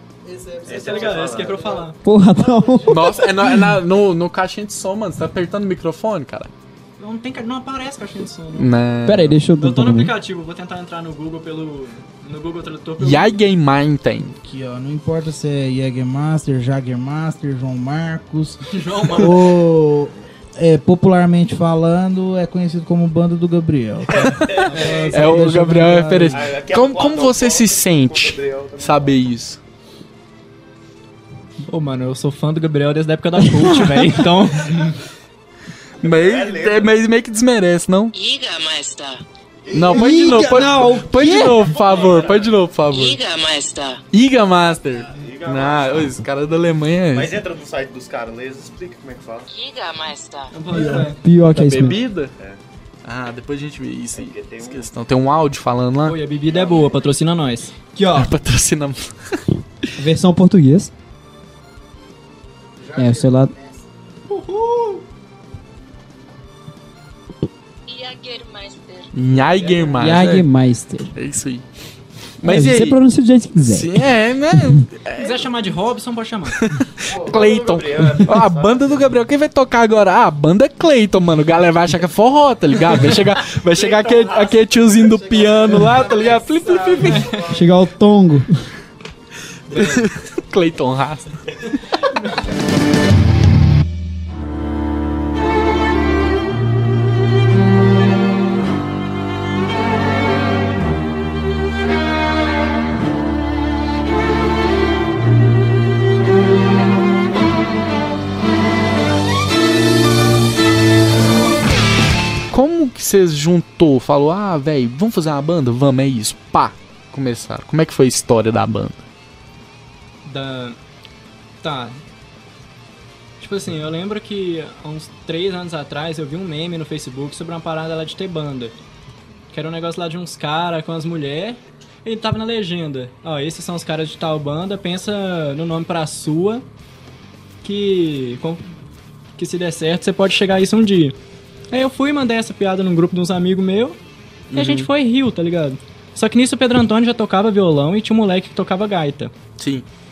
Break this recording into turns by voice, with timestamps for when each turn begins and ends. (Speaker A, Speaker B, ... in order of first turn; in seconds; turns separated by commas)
Speaker A: 0.2-3.5, Speaker B: 0.7-1.8, Speaker C: 0.7-2.0, Speaker D: 2.0-3.8, Speaker E: 2.9-6.5, Speaker C: 7.0-8.7, Speaker E: 8.6-9.4, Speaker D: 9.1-10.2, Speaker C: 9.6-13.4, Speaker E: 13.0-14.4, Speaker A: 14.4-26.5, Speaker C: 18.6-19.4, Speaker B: 24.2-25.1, Speaker C: 24.7-25.5, Speaker E: 25.1-29.6, Speaker D: 25.3-26.3, Speaker B: 26.3-29.2, Speaker C: 31.7-35.0, Speaker D: 33.4-34.3, Speaker B: 36.0-37.0, Speaker E: 36.0-38.1, Speaker F: 38.1-39.2, Speaker B: 39.7-40.2, Speaker E: 39.7-43.2, Speaker D: 39.9-41.8, Speaker C: 41.8-42.2, Speaker B: 41.8-42.5, Speaker F: 42.9-44.0, Speaker E: 44.1-47.3, Speaker B: 45.0-46.2, Speaker B: 47.1-49.5, Speaker F: 49.5-50.5, Speaker C: 50.5-51.2, Speaker D: 50.7-52.0, Speaker A: 50.7-51.1, Speaker E: 51.5-52.3, Speaker E: 53.0-56.2, Speaker B: 54.1-54.9, Speaker C: 56.0-57.8, Speaker B: 56.5-56.9, Speaker D: 58.0-58.3, Speaker E: 58.1-59.5, Speaker D: 60.0-60.9, Speaker A: 62.8-63.9, Speaker D: 63.0-63.5, Speaker C: 64.3-65.0, Speaker F: 67.9-69.1, Speaker E: 69.1-70.5, Speaker B: 69.5-70.1, Speaker D: 70.0-71.1, Speaker E: 71.2-71.7, Speaker E: 72.4-73.0, Speaker D: 72.4-74.9, Speaker E: 73.6-75.5, Speaker C: 75.2-76.6, Speaker E: 76.6-87.3, Speaker B: 77.0-79.2, Speaker B: 83.0-87.7, Speaker A: 85.8-87.5, Speaker C: 87.0-87.5, Speaker D: 87.5-88.7, Speaker C: 89.7-90.1, Speaker E: 89.7-91.5, Speaker C: 92.0-92.4, Speaker E: 112.5-119.0, Speaker C: 120.2-120.8, Speaker C: 121.6-122.0, Speaker C: 123.4-128.8, Speaker C: 129.5-136.7, Speaker C: 137.6-138.8, Speaker C: 139.4-141.2, Speaker C: 141.7-144.0, Speaker E: 144.5-144.9, Speaker C: 144.6-149.3, Speaker E: 149.6-149.9